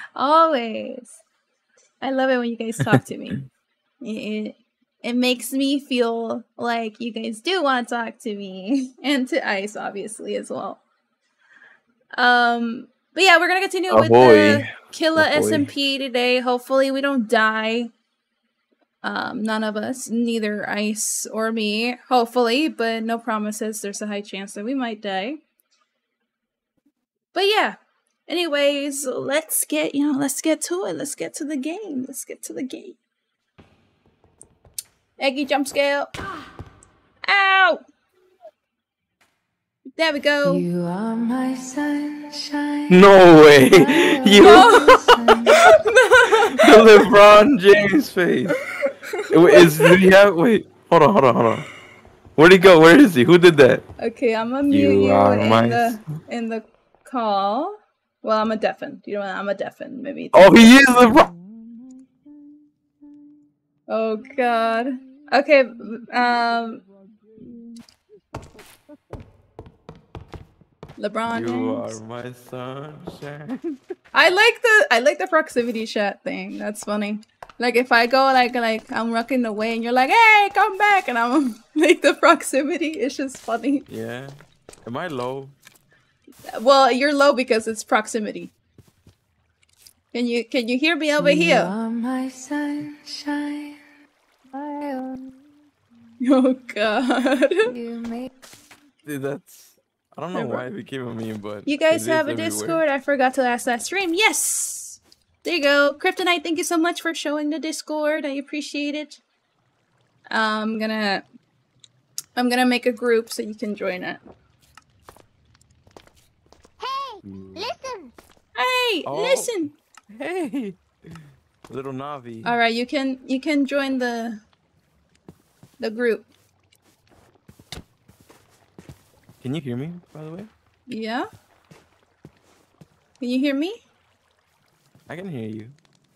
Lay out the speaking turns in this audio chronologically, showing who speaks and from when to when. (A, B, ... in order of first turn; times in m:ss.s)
0:00.2-0:01.2 A
0:02.0-0:03.4 A
0:02.8-0:03.5 B
0:04.0-0:10.8 A
0:12.2-0:17.9 A
0:13.9-0:15.7 B
0:19.0-0:25.4 A
0:27.3-0:33.0 A
0:35.2-0:36.1 A
0:37.3-0:37.8 A
0:40.0-0:40.6 A
0:40.4-0:45.8 C
0:42.9-0:45.8 B
0:44.4-0:45.0 A
0:45.5-0:47.0 A
0:46.5-0:48.6 B
0:48.6-0:50.0 A
0:49.3-0:51.7 B
0:52.4-0:53.9 B
0:54.0-1:00.8 A
0:54.7-0:56.0 B
1:00.3-1:01.3 B
1:03.9-1:06.8 A
1:11.0-1:12.0 A
1:11.3-1:13.8 B
1:14.1-1:23.9 A
1:23.9-1:25.6 B
1:26.5-1:28.5 A
1:30.1-1:31.7 A
1:31.2-1:33.8 C
1:34.5-1:35.3 C
1:36.2-1:37.7 A
1:37.7-1:38.3 C
1:39.0-1:42.8 B
1:40.4-1:40.6 A
1:41.7-1:49.2 A
1:50.3-1:51.2 A
1:52.4-1:54.2 A
1:56.9-1:58.0 C
1:57.3-1:57.6 B
1:58.6-1:59.7 A
1:59.1-1:59.6 B
2:00.1-2:02.6 B
2:02.4-2:04.4 A
2:05.8-2:06.3 A
2:09.4-2:10.5 B
2:10.9-2:11.3 A
2:13.2-2:13.8 A
2:15.1-2:15.8 B